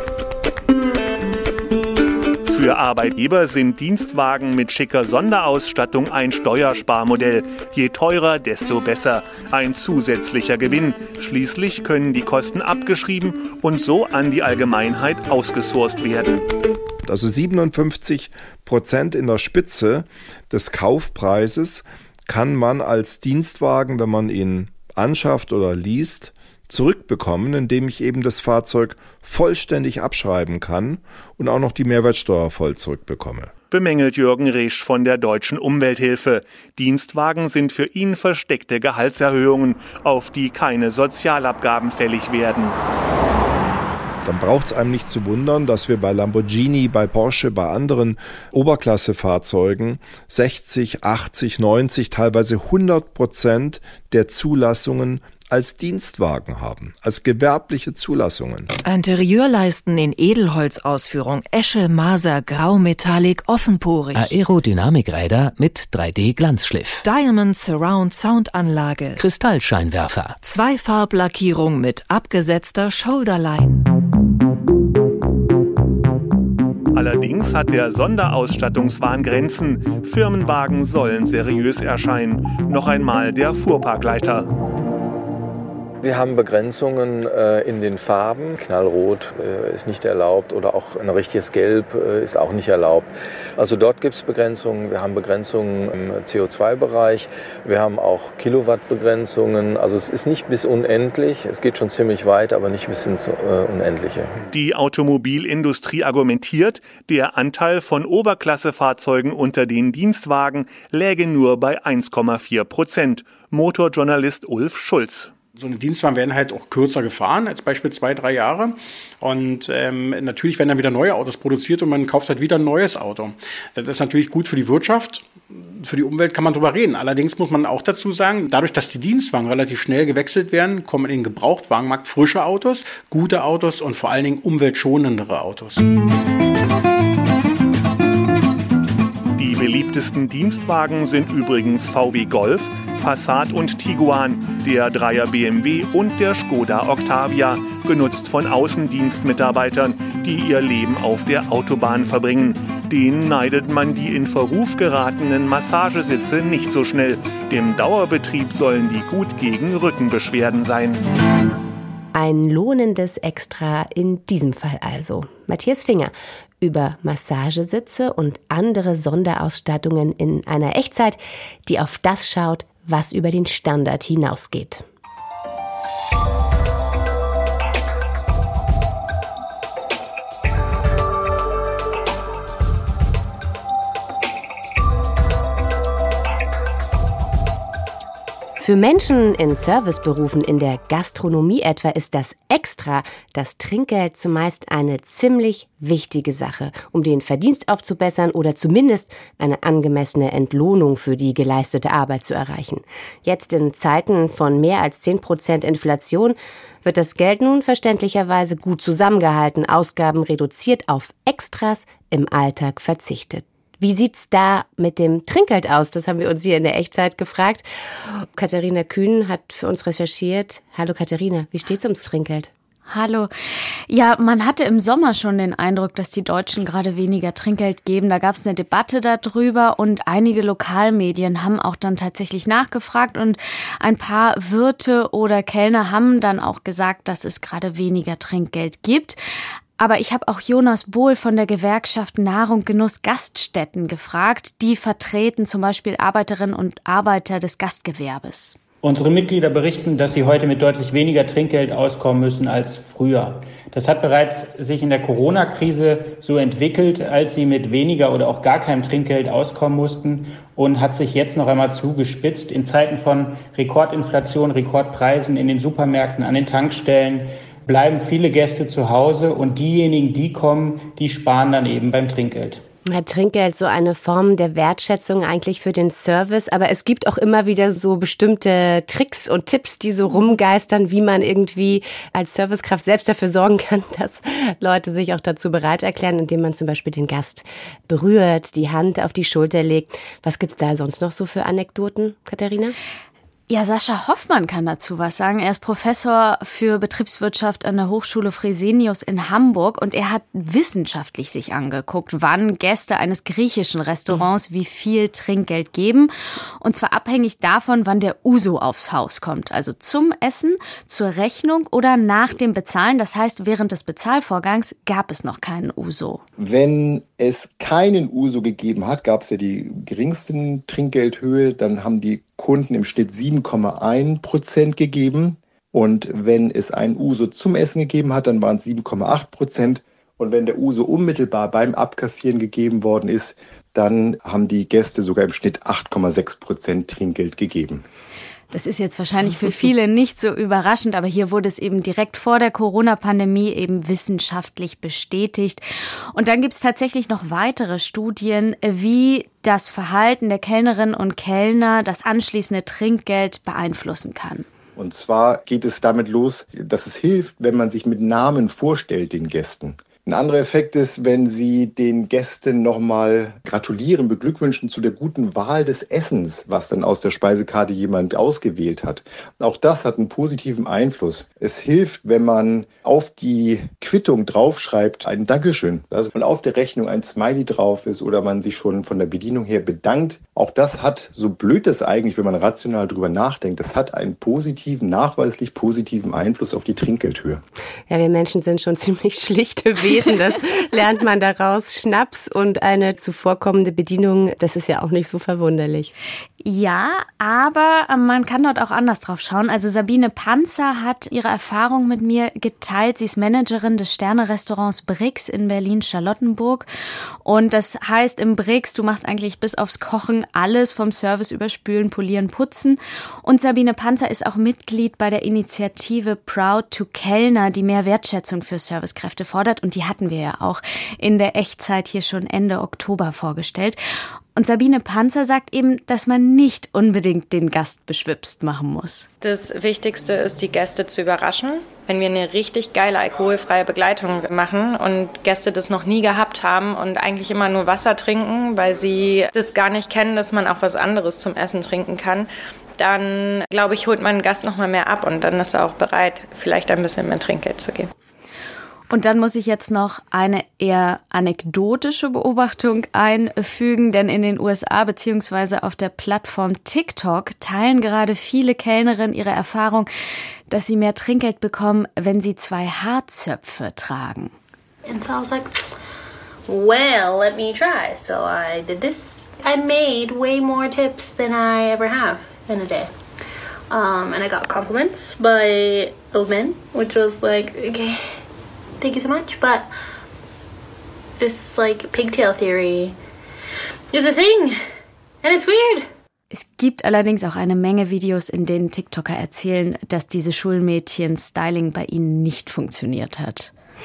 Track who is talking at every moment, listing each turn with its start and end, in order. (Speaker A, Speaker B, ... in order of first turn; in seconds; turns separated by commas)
Speaker A: 2.5-16.4, Speaker B: 17.1-33.5, Speaker A: 33.7-42.8, Speaker B: 44.2-58.7, Speaker C: 58.8-64.3, Speaker D: 64.1-67.0, Speaker C: 67.0-69.2, Speaker D: 69.2-70.4, Speaker C: 70.4-73.8, Speaker A: 76.9-84.5, Speaker E: 86.0-104.4, Speaker A: 104.5-115.3, Speaker F: 115.6-135.9, Speaker A: 139.4-161.0, Speaker G: 162.1-174.8, Speaker G: 188.6-217.7, Speaker G: 218.2-222.5, Speaker H: 222.9-223.3, Speaker H: 223.9-239.2, Speaker H: 239.8-248.6, Speaker I: 248.8-272.6, Speaker G: 272.9-292.8, Speaker H: 293.5-306.1, Speaker H: 306.6-316.2, Speaker J: 316.4-337.9, Speaker H: 338.5-345.6, Speaker H: 346.1-354.5, Speaker J: 354.8-387.4, Speaker G: 387.9-395.9, Speaker H: 396.4-406.7, Speaker H: 407.2-423.8, Speaker H: 424.4-429.1, Speaker K: 429.2-447.9, Speaker H: 448.9-459.9, Speaker H: 460.5-464.3, Speaker L: 464.9-465.7, Speaker L: 466.5-472.9, Speaker L: 473.7-478.2, Speaker L: 478.8-479.7, Speaker L: 481.2-483.0, Speaker L: 483.9-484.6, Speaker L: 485.2-485.9, Speaker H: 486.3-493.5